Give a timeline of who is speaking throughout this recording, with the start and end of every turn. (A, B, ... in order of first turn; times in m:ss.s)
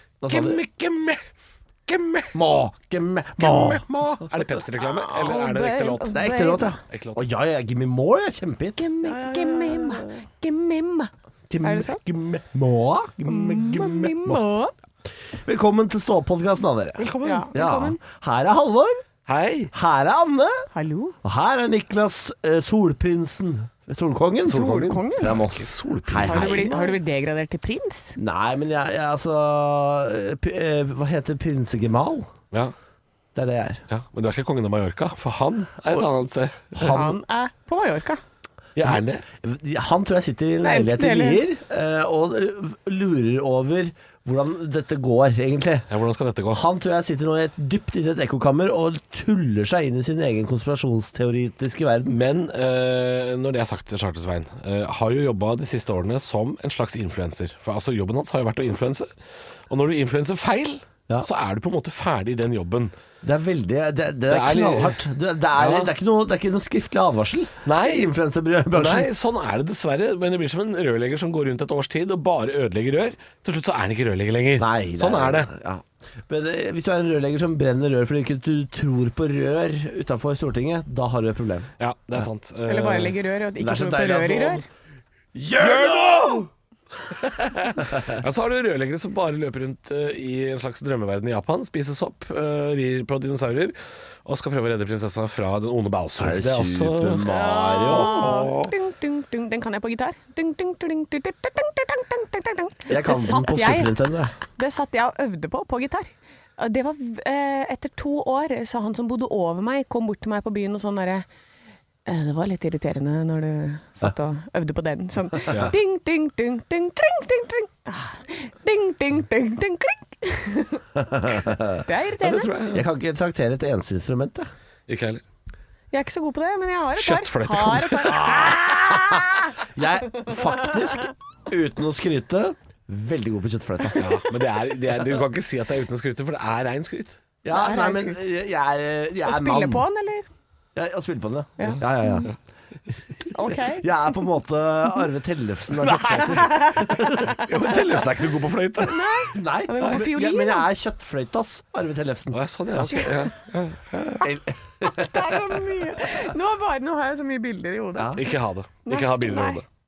0:00.2-0:00.6 A
0:00.3-0:01.2 B
0:01.9-0:02.4 B
0:02.3-0:03.8 A
0:03.4-0:06.3 B
0:04.8-0:06.8 C
0:06.1-0:10.1 A
0:06.9-0:07.2 B
0:08.8-0:11.1 C
0:11.5-0:14.4 A
0:11.6-0:12.0 C
0:13.3-0:14.7 C
0:15.4-0:19.0 A
0:17.0-0:17.5 B
0:17.2-0:18.0 C
0:19.3-0:19.7 B
0:19.7-0:20.7 A
0:20.7-0:21.2 C
0:21.2-0:27.0 A
0:24.5-0:25.4 C
0:24.5-0:26.7 B
0:26.3-0:28.2 C
0:28.2-0:32.3 A
0:33.3-0:33.8 A
0:33.9-0:37.0 B
0:36.8-0:37.2 A
0:36.8-0:38.2 C
0:38.8-0:39.2 B
0:38.9-0:45.9 A
0:40.6-0:41.4 C
0:45.9-0:46.6 B
0:46.5-0:52.2 A
0:52.1-0:59.1 B
0:59.7-1:02.9 B
1:03.2-1:09.1 A
1:04.3-1:05.0 B
1:05.6-1:05.9 B
1:07.6-1:08.1 B
1:08.7-1:15.5 B
1:14.6-1:21.7 A
1:21.8-1:23.2 B
1:22.7-1:24.6 C
1:23.6-1:24.6 A
1:25.3-1:26.5 A
1:25.6-1:26.5 B
1:27.2-1:37.3 B
1:36.2-1:38.5 A
1:37.3-1:44.0 C
1:37.8-1:38.7 B
1:42.9-1:44.3 A
1:44.6-1:51.2 C
1:52.0-2:00.8 C
1:55.5-1:55.7 B
2:01.0-2:01.8 A
2:01.8-2:02.5 C
2:02.2-2:02.8 B
2:02.7-2:04.5 A
2:04.9-2:05.2 B
2:05.9-2:08.9 C
2:07.0-2:08.5 B
2:08.1-2:14.1 A
2:14.0-2:17.2 B
2:17.4-2:19.9 A
2:17.5-2:18.2 C
2:19.2-2:20.3 C
2:20.8-2:22.3 A
2:21.6-2:22.3 C
2:23.3-2:23.9 C
2:23.7-2:27.4 A
2:25.8-2:29.0 B
2:26.5-2:27.4 C
2:28.8-2:30.7 C
2:29.3-2:33.0 A
2:32.3-2:34.3 B
2:32.8-2:33.3 C
2:34.2-2:35.5 A
2:34.9-2:38.2 C
2:38.2-2:39.6 B
2:38.9-2:39.6 C